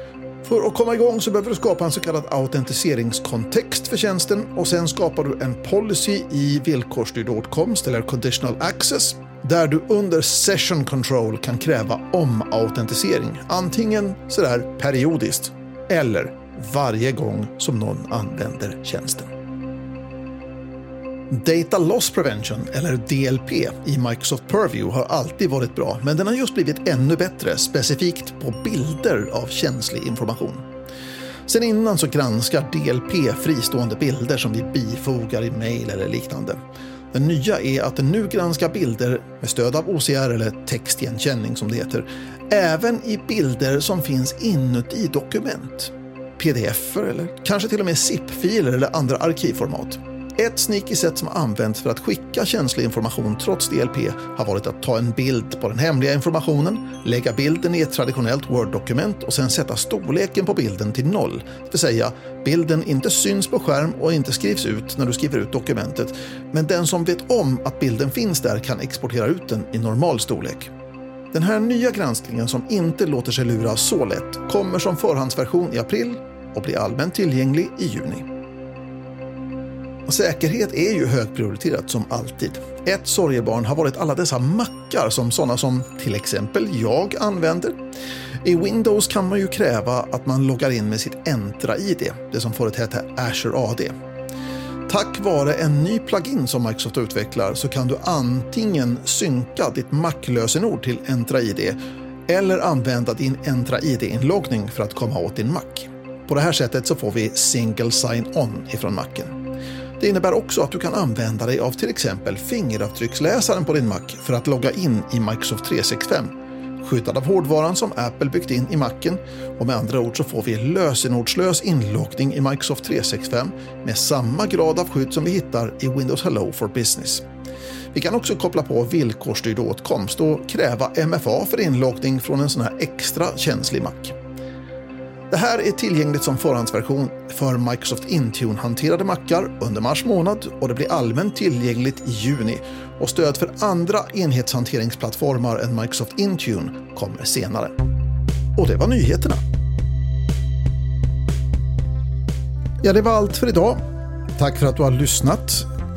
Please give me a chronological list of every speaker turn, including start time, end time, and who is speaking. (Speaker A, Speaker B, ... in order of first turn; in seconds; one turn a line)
Speaker A: 0.4-19.3
Speaker A: 21.3-30.6
Speaker A: 31.5-36.6
Speaker A: 37.1-70.7
Speaker A: 71.3-78.3
Speaker A: 80.1-87.8
Speaker A: 88.4-93.9
Speaker A: 94.9-109.3
Speaker A: 110.0-127.2
Speaker A: 127.9-134.2
Speaker A: 135.3-147.8
Speaker A: 148.6-149.4
Speaker A: 152.8-153.8
Speaker A: 154.4-155.7